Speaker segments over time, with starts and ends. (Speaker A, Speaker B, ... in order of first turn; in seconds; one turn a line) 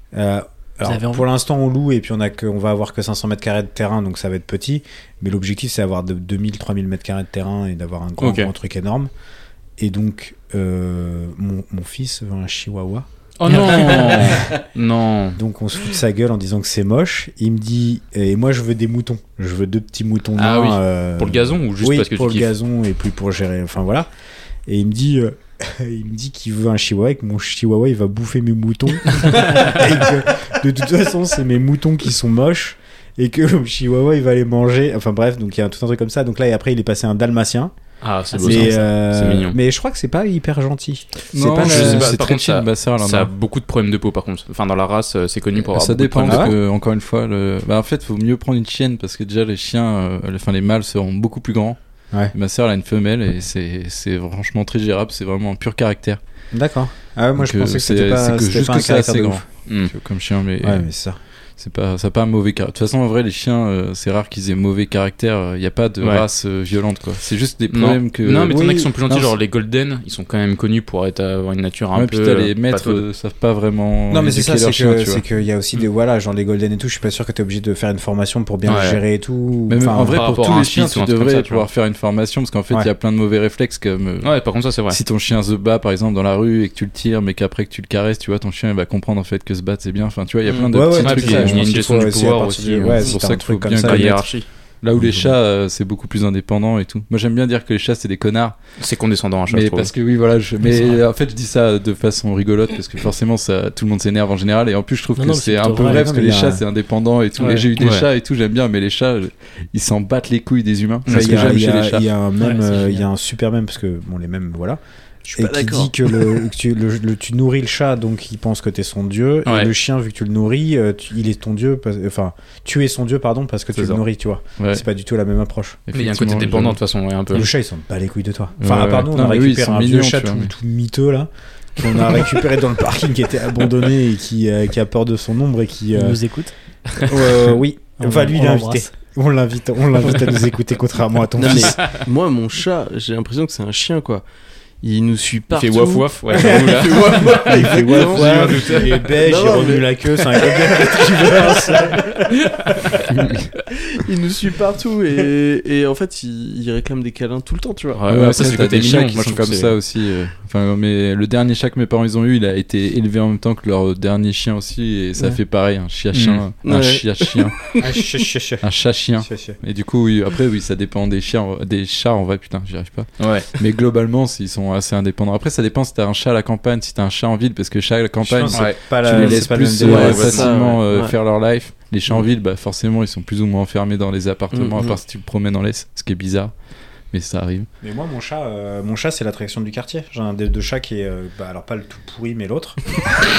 Speaker A: 0.1-9.1
Speaker B: 0.8-1.2
Speaker C: 8.2-8.5
Speaker A: 9.8-14.5
Speaker C: 13.4-15.4
Speaker A: 15.3-24.1
Speaker C: 20.4-22.5
Speaker A: 24.7-37.7
Speaker C: 29.4-29.7
Speaker C: 38.0-39.6
Speaker B: 38.3-38.9
Speaker A: 38.4-42.2
Speaker D: 41.3-43.3
Speaker C: 41.6-46.5
Speaker D: 45.7-51.8
Speaker A: 46.2-46.5
Speaker D: 52.3-56.2
Speaker A: 56.5-59.4
Speaker D: 57.4-60.9
Speaker C: 59.6-59.9
Speaker A: 60.6-61.2
Speaker D: 61.6-69.3
Speaker C: 67.7-73.0
Speaker A: 68.5-68.9
Speaker D: 71.9-75.2
Speaker A: 74.1-80.2
Speaker C: 78.6-79.0
Speaker D: 79.7-84.3
Speaker C: 80.1-81.7
Speaker C: 84.2-85.0
Speaker D: 84.9-91.7
Speaker C: 90.5-93.2
Speaker A: 90.7-94.2
Speaker D: 93.0-98.5
Speaker C: 93.8-94.5
Speaker A: 94.9-95.3
Speaker C: 98.8-99.9
Speaker D: 99.5-112.0
Speaker B: 105.2-106.1
Speaker A: 105.8-106.6
Speaker C: 107.8-108.0
Speaker A: 111.1-114.8
Speaker C: 111.1-111.4
Speaker B: 112.4-113.0
Speaker E: 115.3-115.9
Speaker A: 115.3-125.8
Speaker C: 119.4-119.7
Speaker C: 123.7-124.0
Speaker D: 124.6-124.8
Speaker D: 125.9-126.8
Speaker C: 125.9-127.5
Speaker A: 127.3-136.2
Speaker D: 128.6-130.5
Speaker B: 135.9-136.5
Speaker A: 137.0-141.9
Speaker B: 138.0-138.9
Speaker E: 141.4-144.2
Speaker E: 144.8-151.9
Speaker C: 145.5-149.1
Speaker A: 146.3-152.9
Speaker D: 153.1-153.5
Speaker E: 153.9-158.2
Speaker C: 158.0-159.8
Speaker D: 158.1-167.5
Speaker C: 166.1-166.4
Speaker E: 166.6-168.1
Speaker A: 167.8-168.6
Speaker D: 168.6-186.5
Speaker A: 169.2-169.6
Speaker C: 173.2-173.5
Speaker A: 178.2-180.5
Speaker C: 178.5-180.5
Speaker E: 179.8-181.2
Speaker E: 184.5-185.0
Speaker D: 187.1-187.7
Speaker A: 187.8-193.1